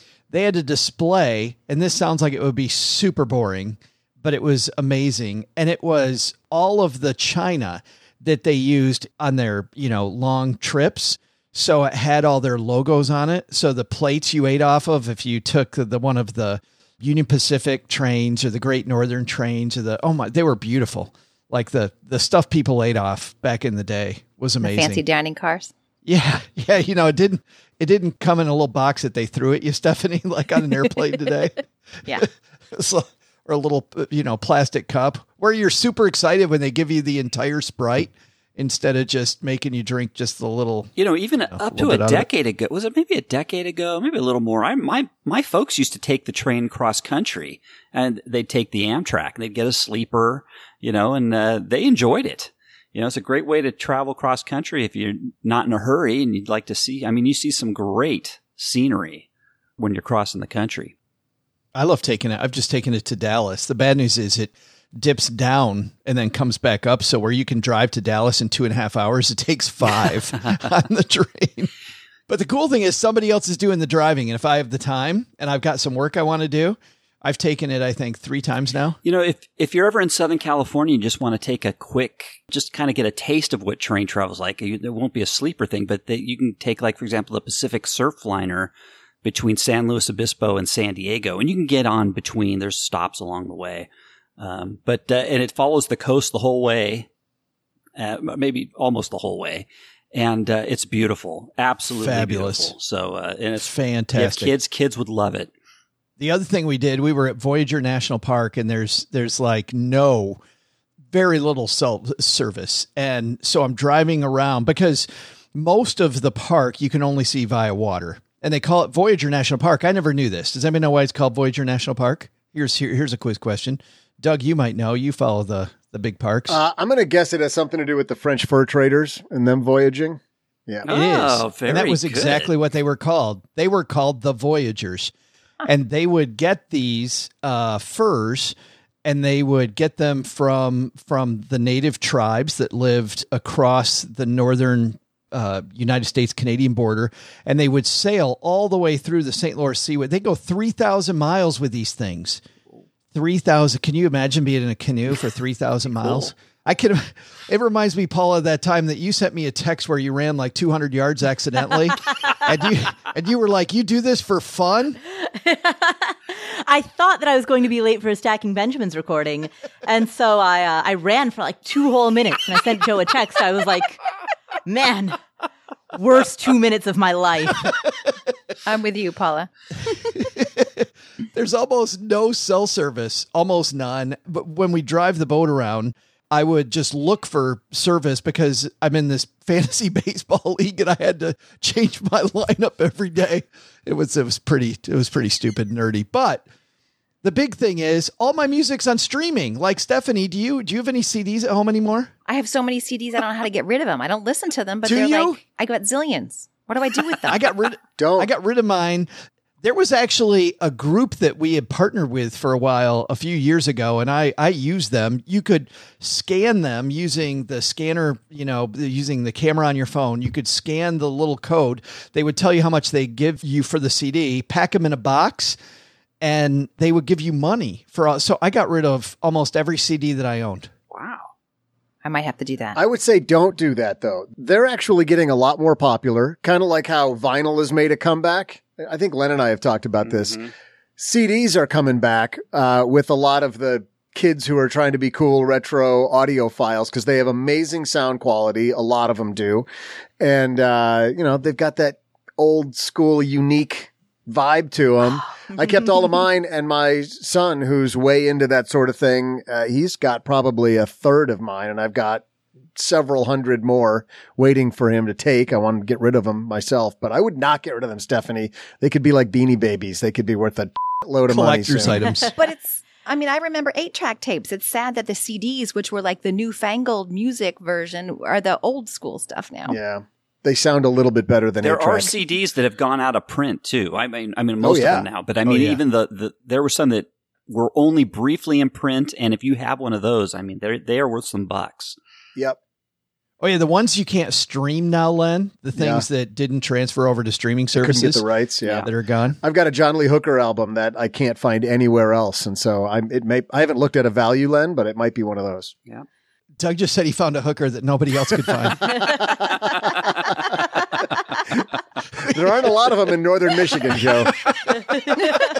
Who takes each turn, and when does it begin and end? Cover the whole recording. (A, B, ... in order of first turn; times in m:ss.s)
0:00.3-0:25.0 A
0:24.6-0:25.7 B
0:26.0-0:31.6 A
0:32.1-0:40.9 A
0:41.0-0:59.3 C
0:41.5-0:42.3 A
0:59.8-1:00.9 C
1:01.8-1:11.7 A
1:12.3-1:19.0 A
1:19.0-1:28.7 C
1:29.2-1:37.1 C
1:38.0-1:45.5 C
1:42.0-1:42.7 A
1:43.6-1:44.5 A
1:46.2-1:50.4 A
1:51.1-2:06.6 A
2:06.5-2:10.9 D
2:10.9-2:12.5 C
2:10.9-2:15.1 A
2:15.6-2:32.4 A
2:33.1-2:45.0 A
2:36.0-2:36.3 C
2:45.2-2:54.0 E
2:54.7-2:55.2 E
2:55.9-2:57.7 E
2:58.6-2:59.5 B
2:59.9-3:16.4 A
3:17.2-3:22.1 A
3:22.3-3:27.4 B
3:24.8-3:25.4 A
3:27.3-3:29.1 A
3:28.0-3:28.3 D
3:29.6-3:45.6 A
3:46.2-3:50.7 A
3:50.9-3:51.3 C
3:52.0-3:52.8 B
3:52.8-4:00.4 D
4:00.0-4:00.5 C
4:01.0-4:09.7 D
4:10.2-4:22.2 D
4:22.8-4:32.0 D
4:31.3-4:32.3 A
4:32.4-4:39.8 B
4:39.7-4:42.1 D
4:41.6-4:52.0 C
4:44.6-4:45.1 D
4:45.5-4:45.8 A
4:53.4-4:58.2 A
4:55.7-4:56.0 D
4:57.8-4:58.9 D
4:58.8-4:59.4 A
4:59.4-5:05.7 D
5:06.6-5:09.0 A
5:08.5-5:09.9 D
5:12.3-5:14.4 D